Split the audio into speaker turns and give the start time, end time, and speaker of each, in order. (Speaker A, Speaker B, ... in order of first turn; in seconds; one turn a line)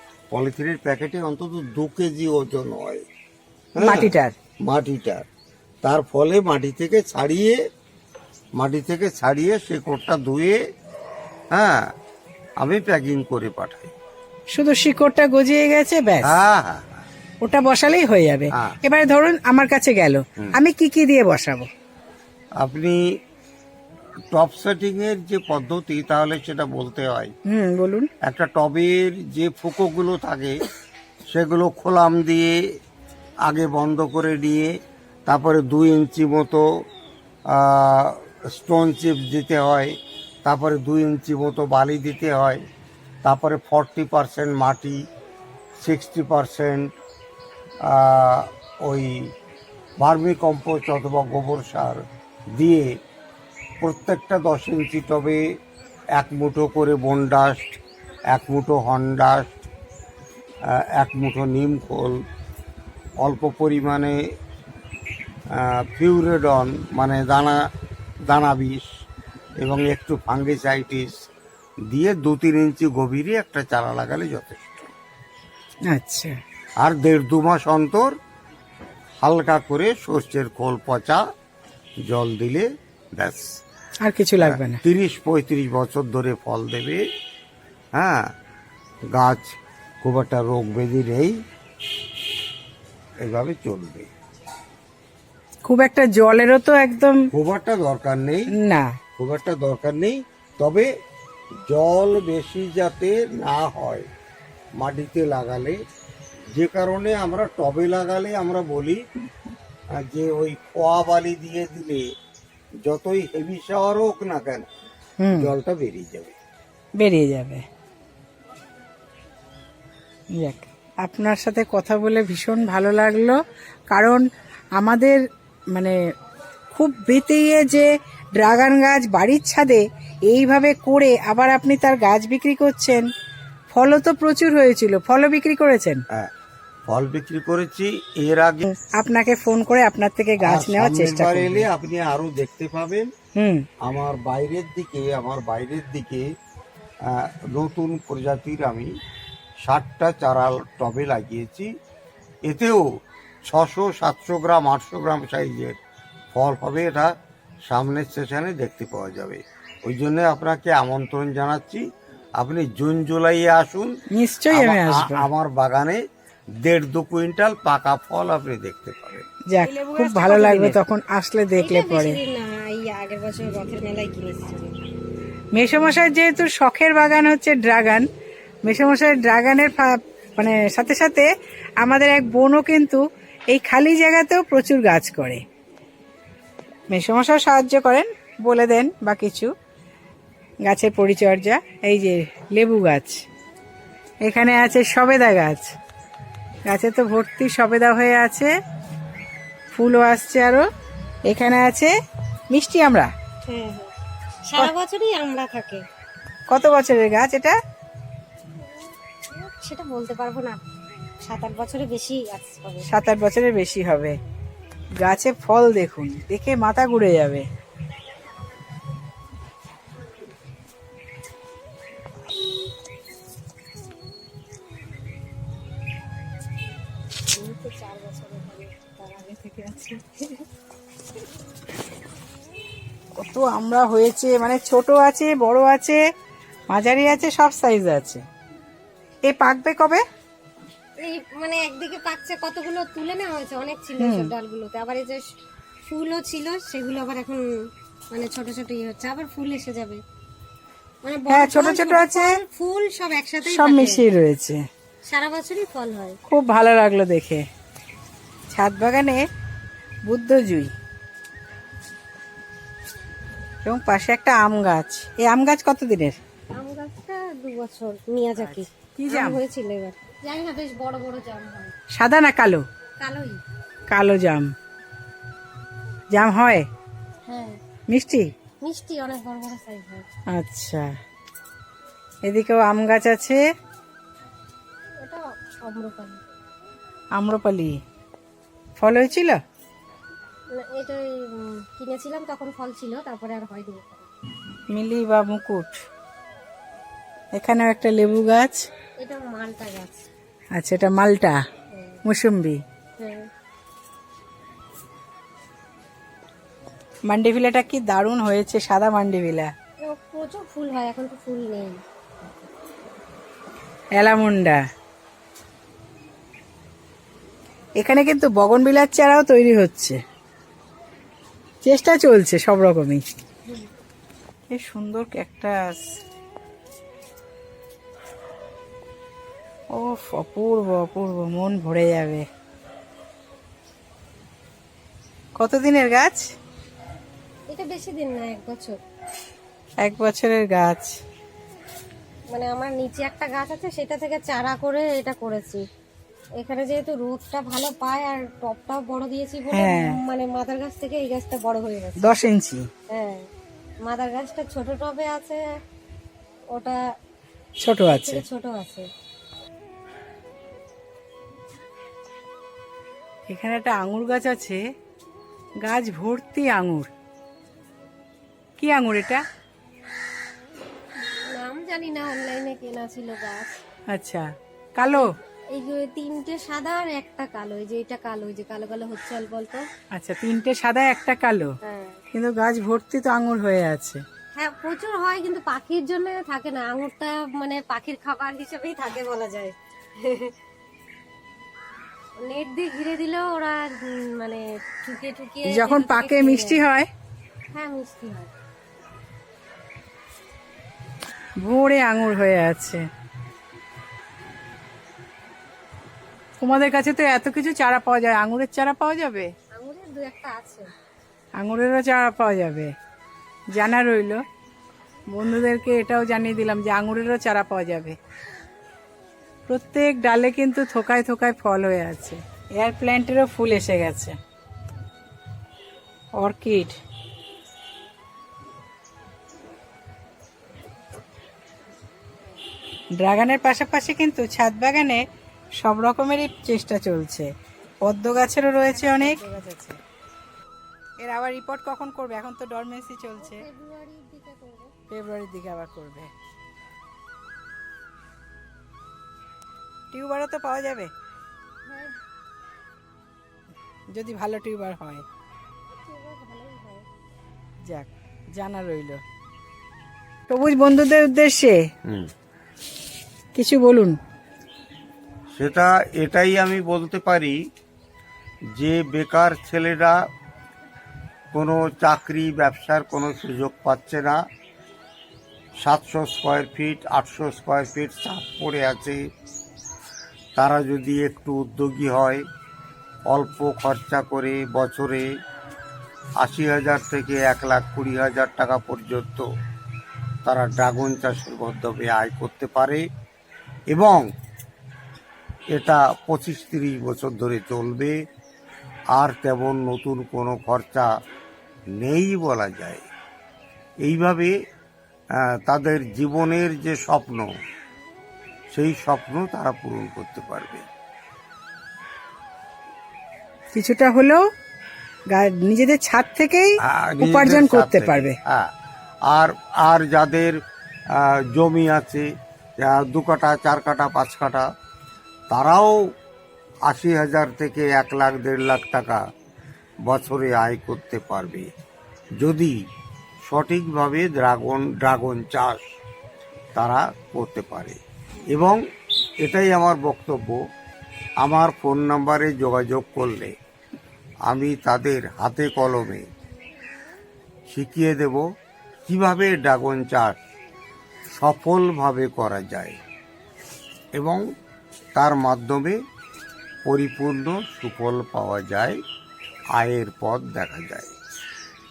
Speaker A: 0.3-3.0
Speaker A: 3.8-4.1
Speaker B: 3.8-4.3
Speaker A: 4.7-5.2
Speaker A: 5.8-7.6
Speaker A: 8.6-10.6
Speaker A: 11.5-11.9
Speaker A: 12.6-13.9
Speaker B: 14.5-16.4
Speaker A: 16.2-17.1
Speaker B: 17.4-21.7
Speaker A: 22.6-23.0
Speaker A: 24.3-27.3
Speaker B: 27.5-28.1
Speaker A: 28.2-30.6
Speaker A: 31.3-32.6
Speaker A: 33.5-34.7
Speaker A: 35.3-36.6
Speaker A: 37.5-39.9
Speaker A: 40.4-42.6
Speaker A: 43.2-45.0
Speaker A: 45.8-46.9
Speaker A: 47.9-49.3
Speaker A: 50.0-52.0
Speaker A: 52.5-52.9
Speaker A: 53.8-55.4
Speaker A: 56.2-57.8
Speaker A: 58.3-59.6
Speaker A: 60.7-62.2
Speaker A: 63.2-64.2
Speaker A: 65.6-67.6
Speaker A: 68.3-68.8
Speaker A: 69.6-71.1
Speaker A: 71.9-74.8
Speaker B: 75.9-76.4
Speaker A: 76.8-78.1
Speaker A: 79.2-81.2
Speaker A: 82.1-83.6
Speaker B: 84.0-84.8
Speaker A: 84.4-87.0
Speaker A: 87.9-88.3
Speaker A: 89.1-91.3
Speaker A: 93.2-94.1
Speaker B: 95.6-97.2
Speaker A: 97.3-98.5
Speaker B: 98.5-98.9
Speaker A: 99.2-100.9
Speaker A: 101.6-104.1
Speaker A: 104.8-105.8
Speaker A: 106.5-109.0
Speaker A: 110.0-112.0
Speaker A: 112.8-114.7
Speaker B: 115.2-115.5
Speaker A: 115.3-116.3
Speaker B: 117.0-117.6
Speaker B: 120.4-123.4
Speaker B: 123.9-124.2
Speaker B: 124.8-125.2
Speaker B: 126.7-133.1
Speaker B: 133.7-136.0
Speaker A: 136.9-138.7
Speaker B: 138.7-141.7
Speaker A: 140.4-143.1
Speaker B: 143.3-143.6
Speaker A: 143.8-146.2
Speaker A: 147.1-148.9
Speaker A: 149.6-151.7
Speaker A: 152.4-152.8
Speaker A: 153.5-155.8
Speaker A: 156.3-157.1
Speaker A: 157.7-161.8
Speaker A: 162.4-163.9
Speaker B: 164.2-165.3
Speaker A: 164.5-166.0
Speaker A: 166.6-169.2
Speaker B: 169.5-172.2
Speaker C: 169.7-170.8
Speaker C: 171.6-174.7
Speaker B: 175.5-178.1
Speaker B: 178.7-181.3
Speaker B: 181.8-185.4
Speaker B: 186.9-189.5
Speaker B: 190.7-193.2
Speaker B: 194.2-195.7
Speaker B: 196.7-198.5
Speaker B: 199.7-200.7
Speaker B: 201.3-201.9
Speaker B: 202.5-203.1
Speaker C: 203.4-203.9
Speaker C: 204.4-205.8
Speaker B: 206.5-207.6
Speaker C: 209.3-210.6
Speaker C: 211.2-212.8
Speaker B: 212.9-214.1
Speaker B: 215.0-217.4
Speaker B: 227.4-230.0
Speaker C: 228.2-228.9
Speaker B: 233.2-236.0
Speaker B: 236.7-238.2
Speaker B: 239.3-240.0
Speaker C: 241.0-245.2
Speaker B: 244.0-244.3
Speaker C: 245.9-247.4
Speaker C: 248.1-250.0
Speaker C: 251.0-254.0
Speaker B: 251.3-252.4
Speaker B: 253.4-254.6
Speaker C: 255.1-256.2
Speaker B: 256.3-257.4
Speaker B: 258.5-259.2
Speaker B: 260.1-260.7
Speaker B: 263.6-266.2
Speaker C: 266.5-271.7
Speaker B: 268.4-269.4
Speaker B: 271.9-272.6
Speaker C: 273.0-273.4
Speaker B: 273.9-274.5
Speaker B: 276.1-276.7
Speaker C: 277.3-277.6
Speaker B: 277.9-278.3
Speaker C: 278.6-280.1
Speaker B: 280.3-280.9
Speaker B: 282.3-283.4
Speaker C: 285.0-286.3
Speaker B: 287.1-287.8
Speaker B: 288.8-289.4
Speaker C: 290.5-294.1
Speaker B: 294.7-295.8
Speaker B: 297.3-298.6
Speaker C: 299.0-300.1
Speaker B: 300.6-301.4
Speaker B: 302.0-302.6
Speaker C: 303.0-303.3
Speaker B: 307.1-309.5
Speaker C: 309.8-311.8
Speaker B: 313.9-314.6
Speaker B: 317.8-320.0
Speaker B: 321.6-323.0
Speaker B: 324.5-325.8
Speaker B: 329.8-332.2
Speaker B: 335.4-336.3
Speaker C: 337.5-338.8
Speaker B: 339.8-341.0
Speaker C: 342.3-345.6
Speaker C: 346.4-352.1
Speaker B: 349.5-350.0
Speaker B: 352.0-352.6
Speaker C: 352.9-353.2
Speaker C: 353.9-355.4
Speaker C: 356.5-356.8
Speaker B: 357.6-358.2
Speaker C: 357.9-358.9
Speaker B: 363.3-364.6
Speaker B: 365.6-366.9
Speaker B: 368.6-369.2
Speaker C: 371.3-373.5
Speaker B: 373.9-375.1
Speaker C: 375.5-379.6
Speaker B: 379.9-381.5
Speaker C: 381.6-382.0
Speaker B: 382.1-384.0
Speaker C: 384.4-390.3
Speaker C: 392.2-396.6
Speaker B: 395.5-396.9
Speaker C: 397.5-398.3
Speaker B: 401.4-402.8
Speaker B: 406.4-409.3
Speaker C: 409.5-410.7
Speaker B: 411.4-412.7
Speaker B: 413.5-414.2
Speaker B: 415.1-418.0
Speaker B: 419.5-424.1
Speaker B: 426.2-426.8
Speaker B: 433.0-435.0
Speaker B: 435.6-437.3
Speaker B: 437.8-439.7
Speaker C: 438.7-439.5
Speaker B: 441.0-443.4
Speaker C: 443.2-444.7
Speaker B: 444.9-446.1
Speaker B: 449.9-450.9
Speaker C: 451.6-451.9
Speaker B: 453.9-455.0
Speaker C: 455.9-456.9
Speaker B: 457.6-459.0
Speaker B: 460.3-461.6
Speaker A: 461.9-462.1
Speaker B: 463.3-464.0
Speaker A: 465.4-467.4
Speaker A: 468.6-469.9
Speaker A: 471.3-474.2
Speaker A: 475.6-479.0
Speaker A: 480.4-482.2
Speaker A: 483.1-485.1
Speaker A: 486.2-489.2
Speaker A: 490.2-492.8
Speaker A: 493.7-494.0
Speaker A: 495.5-497.9
Speaker A: 498.9-500.9
Speaker A: 501.8-502.9
Speaker A: 503.8-504.3
Speaker A: 505.2-507.3
Speaker A: 508.5-510.6
Speaker B: 513.5-514.2
Speaker B: 515.1-518.2
Speaker A: 516.6-518.5
Speaker A: 519.1-520.4
Speaker A: 521.0-522.0
Speaker A: 522.6-524.5
Speaker A: 525.3-525.8
Speaker A: 526.7-529.0
Speaker A: 529.9-531.5
Speaker A: 532.2-532.5
Speaker A: 533.3-535.6
Speaker A: 536.5-537.8
Speaker A: 538.3-538.6
Speaker A: 539.2-540.4
Speaker A: 541.2-543.3
Speaker A: 544.3-546.0
Speaker A: 547.5-548.2
Speaker A: 548.9-550.1
Speaker A: 551.1-552.8
Speaker A: 554.0-554.2
Speaker A: 554.9-555.8
Speaker A: 556.6-558.8
Speaker A: 559.5-560.9